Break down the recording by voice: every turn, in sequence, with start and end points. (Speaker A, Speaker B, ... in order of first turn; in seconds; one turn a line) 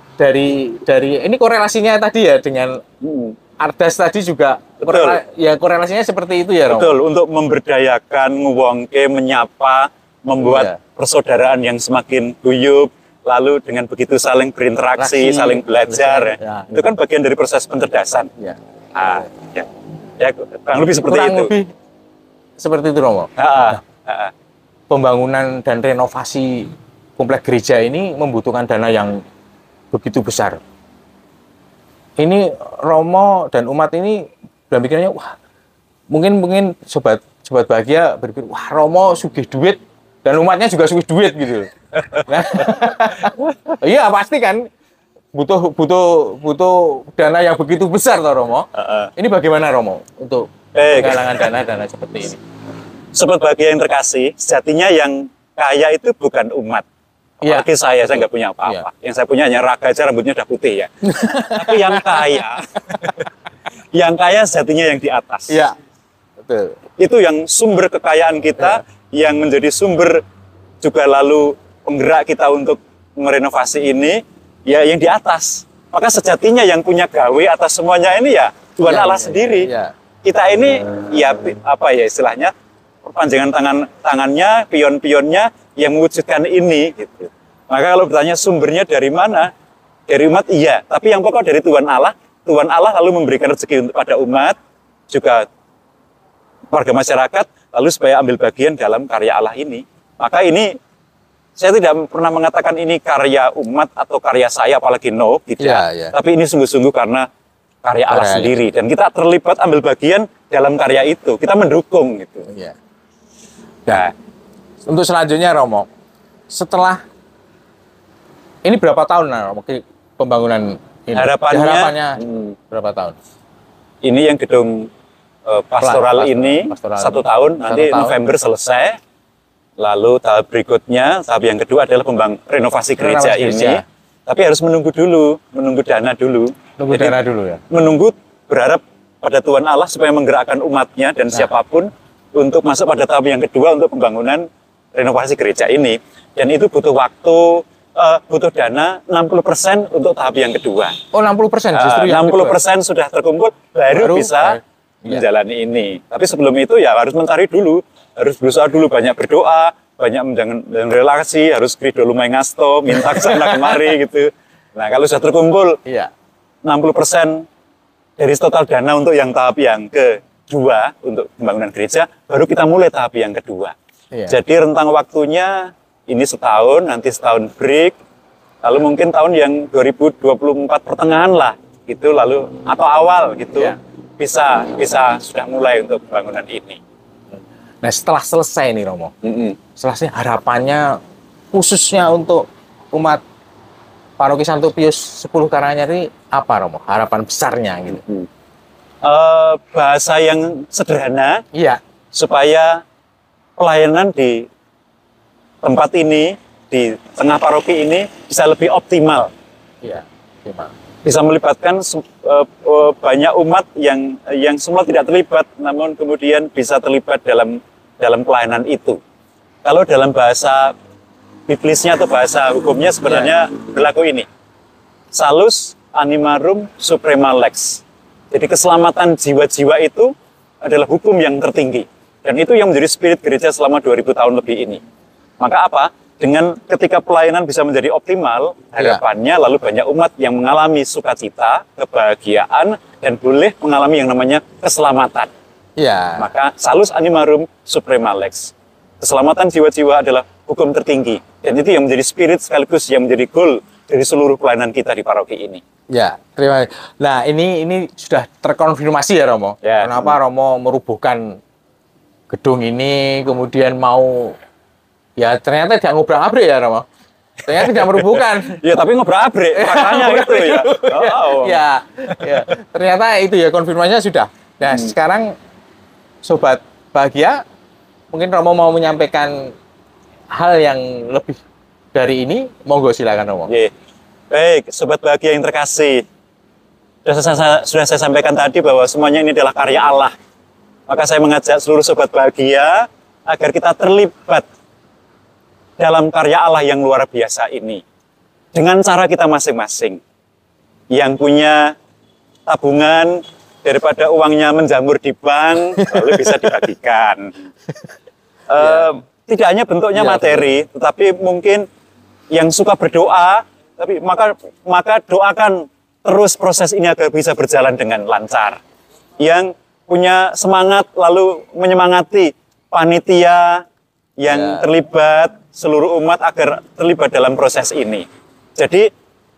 Speaker A: 0.2-2.8
Speaker B: 3.0-3.4
Speaker A: 3.6-6.9
Speaker B: 4.8-5.2
Speaker B: 6.7-18.3
Speaker A: 10.4-10.8
Speaker A: 14.9-16.9
Speaker B: 18.9-19.7
Speaker B: 20.2-21.5
Speaker A: 21.0-21.7
Speaker A: 22.6-23.3
Speaker B: 23.4-24.3
Speaker A: 24.9-29.2
Speaker A: 29.9-30.6
Speaker A: 32.2-35.4
Speaker A: 36.1-41.7
Speaker A: 42.2-44.6
Speaker A: 45.3-52.4
Speaker B: 48.8-49.1
Speaker B: 50.7-51.5
Speaker B: 53.1-56.8
Speaker A: 57.4-58.9
Speaker B: 57.4-60.9
Speaker A: 61.0-62.3
Speaker B: 61.4-63.3
Speaker B: 63.9-65.6
Speaker A: 65.5-65.8
Speaker A: 66.4-66.8
Speaker B: 67.0-70.2
Speaker B: 70.8-79.7
Speaker A: 78.8-79.9
Speaker B: 80.2-82.5
Speaker B: 83.0-89.5
Speaker B: 90.1-94.5
Speaker B: 95.1-95.4
Speaker B: 96.7-100.7
Speaker B: 101.6-107.2
Speaker A: 105.6-106.2
Speaker B: 107.8-112.5
Speaker A: 108.1-108.5
Speaker A: 112.5-112.8
Speaker A: 114.8-115.9
Speaker A: 116.5-117.0
Speaker A: 118.6-123.2
Speaker B: 121.1-122.5
Speaker B: 124.0-124.9
Speaker B: 125.5-128.9
Speaker A: 125.8-128.2
Speaker B: 129.8-137.2
Speaker A: 133.0-133.8
Speaker A: 136.8-137.6
Speaker B: 137.7-150.9
Speaker A: 151.1-152.6
Speaker B: 151.7-165.8
Speaker A: 153.9-155.2
Speaker A: 163.0-163.8
Speaker B: 166.6-167.4
Speaker B: 168.2-173.7
Speaker A: 174.1-174.4
Speaker B: 174.3-177.9
Speaker B: 178.6-186.8
Speaker A: 187.8-189.1
Speaker B: 189.2-189.6
Speaker A: 189.8-191.0
Speaker A: 191.5-193.2
Speaker A: 194.2-198.0
Speaker B: 199.0-201.4
Speaker A: 201.5-201.8
Speaker B: 202.1-202.8
Speaker B: 203.6-204.4
Speaker B: 205.6-209.3
Speaker A: 209.8-210.7
Speaker B: 211.0-219.0
Speaker B: 219.6-220.7
Speaker B: 221.5-224.2
Speaker B: 225.1-230.1
Speaker B: 230.6-234.8
Speaker B: 235.4-245.3
Speaker A: 245.8-246.3
Speaker B: 246.2-255.6
Speaker A: 255.9-261.4
Speaker B: 259.6-260.2
Speaker A: 262.3-264.4
Speaker A: 265.2-266.9
Speaker A: 267.4-268.6
Speaker B: 267.5-272.5
Speaker A: 269.5-275.3
Speaker B: 274.7-274.9
Speaker A: 276.2-277.4
Speaker A: 278.1-279.5
Speaker A: 280.3-281.4
Speaker A: 281.9-283.5
Speaker B: 284.3-286.0
Speaker B: 287.0-290.1
Speaker B: 290.9-294.4
Speaker B: 295.8-297.8
Speaker B: 298.5-300.0
Speaker B: 300.9-301.7
Speaker B: 302.5-307.3
Speaker B: 308.5-311.6
Speaker A: 308.6-308.9
Speaker A: 309.9-310.5
Speaker B: 312.3-318.6
Speaker B: 319.2-323.6
Speaker B: 324.2-328.1
Speaker A: 324.3-324.7
Speaker B: 328.6-328.9